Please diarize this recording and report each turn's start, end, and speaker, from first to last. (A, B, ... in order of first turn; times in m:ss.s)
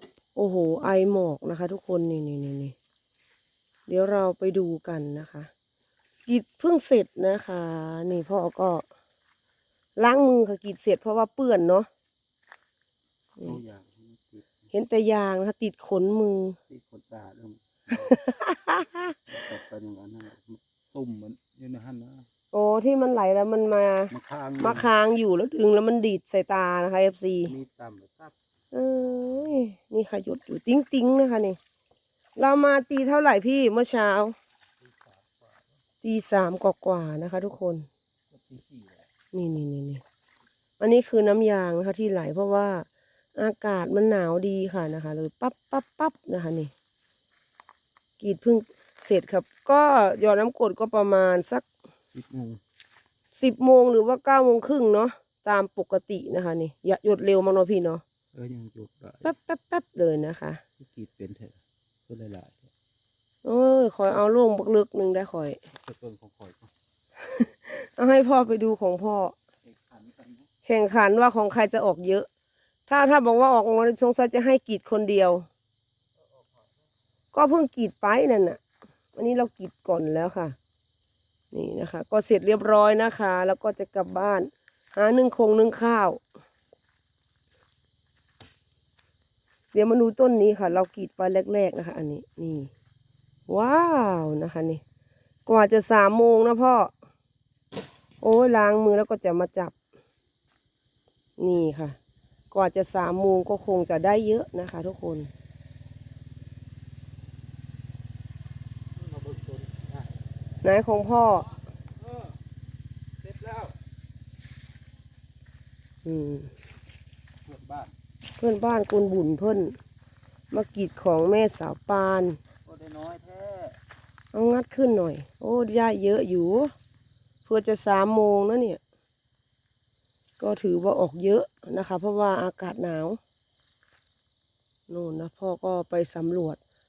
0:00.3-0:02.7 A
0:03.9-0:05.5 A
0:06.3-0:08.8 A
0:10.0-0:11.9 A
0:13.4-0:14.5 B
0:14.7-0:16.6 A
0:16.7-0:18.1 B
0:17.9-0:19.1 A
0:19.2-0:22.2 B
0:22.5-0:27.5 A
0:24.1-0:24.9 B
0:27.5-0:28.3 B
0:28.7-0:31.6 A
0:32.4-0:34.4 A
0:36.0-0:37.9 A
0:38.3-0:39.0 B
0:39.3-0:40.0 A
0:40.8-0:46.7 A
0:48.2-0:51.6 A
0:52.1-0:52.6 B
0:53.3-0:58.0 A
0:58.3-0:59.3 B
0:59.2-1:00.6 A
1:00.8-1:02.7 B
1:03.4-1:05.6 A
1:05.7-1:06.7 B
1:07.2-1:09.3 A
1:09.7-1:10.4 B
1:10.6-1:12.3 A
1:12.9-1:15.4 A
1:17.3-1:18.6 A
1:19.2-1:20.6 A
1:21.5-1:26.2 A
1:29.7-1:32.7 A
1:33.5-1:34.8 A
1:35.4-1:36.9 A
1:38.2-1:39.7 A
1:41.4-1:42.0 A
1:42.5-1:45.3 A
1:49.0-1:50.1 B
1:50.6-1:51.6 A
1:53.2-1:53.7 B
1:56.0-1:56.5 A
1:57.4-1:57.9 B
1:58.4-1:59.8 A
2:00.5-2:02.4 A
2:02.6-2:03.8 B
2:04.3-2:06.7 A
2:07.4-2:08.8 A
2:10.4-2:13.2 A
2:14.9-2:16.6 A